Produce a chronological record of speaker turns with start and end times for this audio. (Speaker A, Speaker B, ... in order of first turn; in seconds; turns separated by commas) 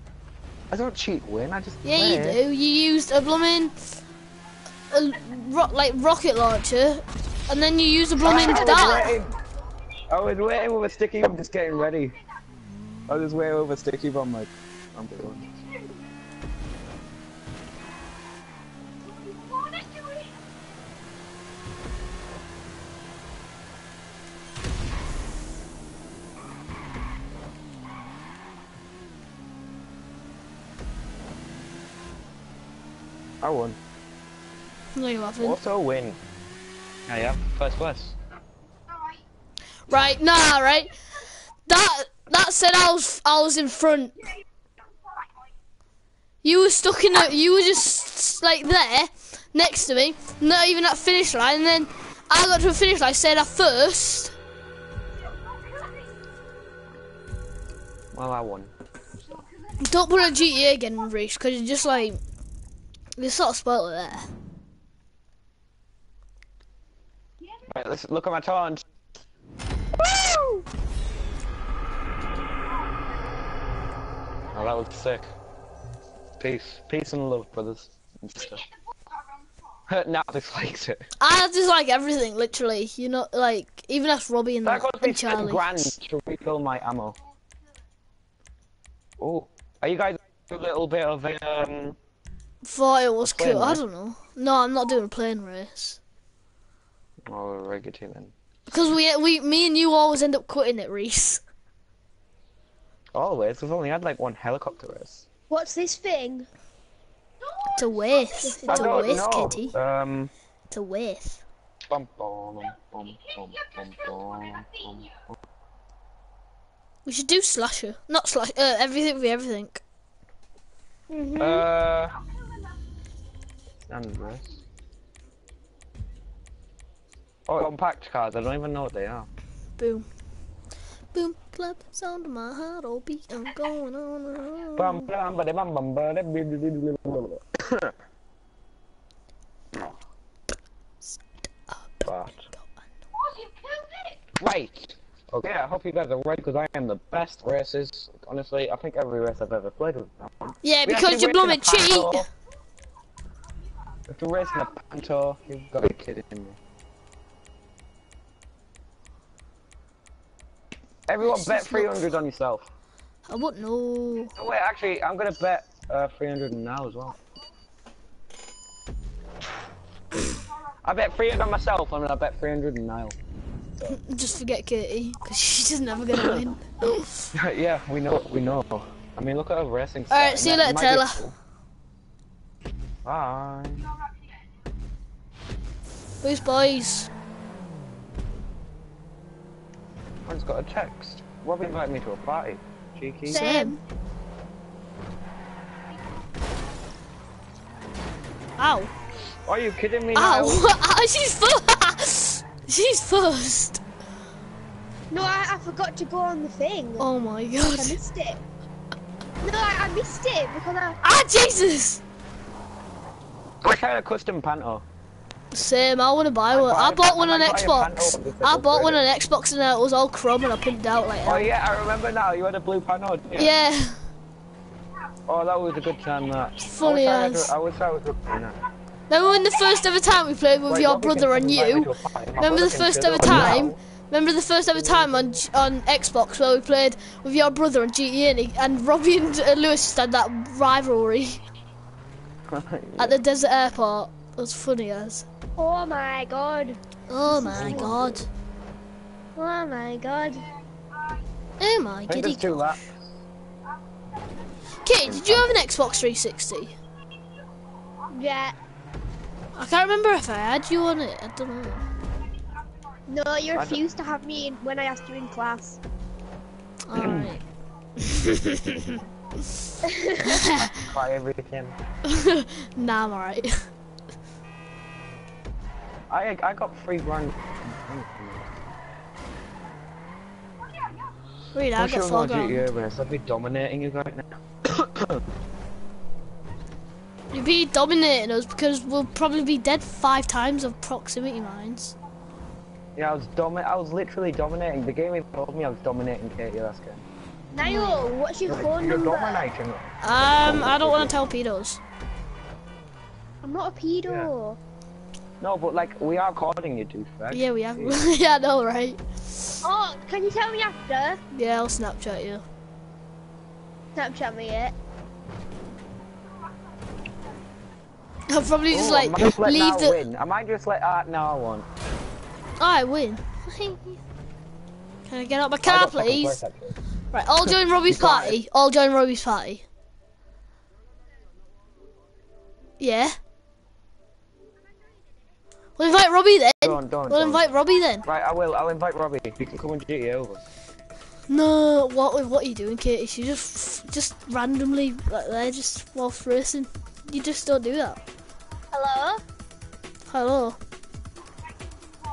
Speaker A: 0.7-2.4, Speaker B: 1.8-3.9, Speaker B: 4.9-9.1, Speaker A: 8.2-9.4, Speaker C: 8.3-9.1, Speaker A: 10.1-12.2, Speaker A: 13.1-15.5, Speaker A: 33.4-33.8, Speaker B: 35.0-35.6, Speaker A: 35.4-36.2, Speaker A: 37.1-38.1, Speaker B: 39.9-41.0, Speaker B: 41.7-44.2, Speaker B: 46.4-54.4, Speaker A: 58.1-58.7, Speaker B: 59.8-62.2, Speaker B: 63.2-64.3, Speaker A: 67.7-68.8, Speaker A: 74.5-75.3, Speaker A: 76.4-78.7, Speaker A: 79.9-81.1, Speaker B: 81.2-85.9, Speaker A: 84.6-87.2, Speaker A: 89.2-92.0, Speaker B: 92.6-96.0, Speaker A: 93.2-93.8, Speaker A: 97.3-98.3, Speaker B: 98.7-101.4, Speaker A: 103.1-105.3, Speaker C: 105.5-106.5, Speaker B: 107.8-109.8, Speaker C: 108.5-109.2, Speaker A: 108.7-110.3, Speaker B: 110.7-111.4, Speaker A: 111.9-115.4, Speaker B: 117.1-119.8, Speaker C: 121.1-121.7, Speaker A: 121.4-122.2, Speaker A: 123.9-124.5, Speaker A: 127.5-129.3, Speaker B: 129.8-130.1, Speaker B: 131.1-135.1, Speaker A: 134.8-137.9, Speaker A: 142.1-142.5, Speaker A: 144.4-152.3, Speaker B: 150.6-152.3, Speaker A: 154.1-156.6, Speaker A: 161.1-162.7, Speaker B: 161.2-162.1, Speaker B: 163.3-164.3, Speaker A: 164.4-167.2, Speaker A: 170.8-173.2, Speaker B: 173.9-177.1, Speaker A: 177.3-181.3, Speaker B: 180.1-181.2, Speaker A: 183.0-184.0, Speaker B: 186.2-187.1, Speaker A: 190.3-193.6, Speaker B: 193.3-193.8, Speaker C: 193.3-193.8, Speaker B: 198.6-198.9, Speaker A: 199.4-200.7, Speaker B: 200.2-203.8, Speaker C: 205.1-207.1, Speaker B: 207.0-208.0, Speaker C: 207.6-208.4, Speaker C: 209.4-211.0, Speaker B: 211.0-212.0, Speaker A: 213.6-214.8, Speaker B: 215.5-221.5, Speaker A: 216.5-219.0, Speaker A: 221.2-223.5, Speaker B: 223.4-224.1, Speaker A: 225.3-228.6, Speaker B: 226.6-227.5, Speaker B: 229.1-241.4, Speaker A: 230.7-233.8, Speaker A: 234.7-235.4, Speaker A: 242.5-243.2, Speaker B: 243.0-245.3, Speaker C: 245.6-246.8, Speaker B: 247.1-248.3, Speaker A: 247.3-248.3, Speaker C: 247.5-247.9, Speaker C: 249.4-250.4, Speaker B: 251.6-252.8, Speaker A: 252.1-253.0, Speaker B: 254.8-256.8, Speaker A: 255.0-255.6, Speaker C: 258.1-258.6, Speaker B: 259.6-261.8, Speaker C: 263.1-265.8, Speaker A: 263.5-263.8, Speaker B: 266.9-267.4, Speaker A: 266.9-267.4, Speaker B: 268.0-269.0, Speaker C: 269.9-270.2, Speaker B: 270.2-270.8, Speaker A: 270.6-271.8, Speaker B: 272.1-273.7, Speaker A: 276.1-278.6, Speaker B: 281.5-282.7, Speaker A: 281.8-285.2, Speaker B: 287.3-292.0, Speaker A: 293.0-297.1, Speaker C: 297.5-299.4, Speaker A: 298.5-301.3, Speaker B: 300.0-301.8, Speaker C: 303.4-304.6, Speaker A: 304.0-304.3, Speaker A: 305.4-308.0, Speaker B: 307.3-309.0, Speaker C: 309.6-311.2, Speaker B: 311.3-312.4, Speaker C: 313.9-314.8, Speaker B: 318.3-320.0, Speaker A: 318.7-321.7, Speaker B: 322.6-324.0, Speaker B: 325.1-326.4, Speaker A: 325.6-326.8, Speaker B: 327.1-329.6, Speaker A: 327.4-328.4, Speaker B: 332.8-333.2, Speaker B: 335.8-338.1, Speaker A: 336.6-340.4, Speaker B: 341.3-348.0, Speaker C: 348.7-349.2, Speaker B: 350.1-350.6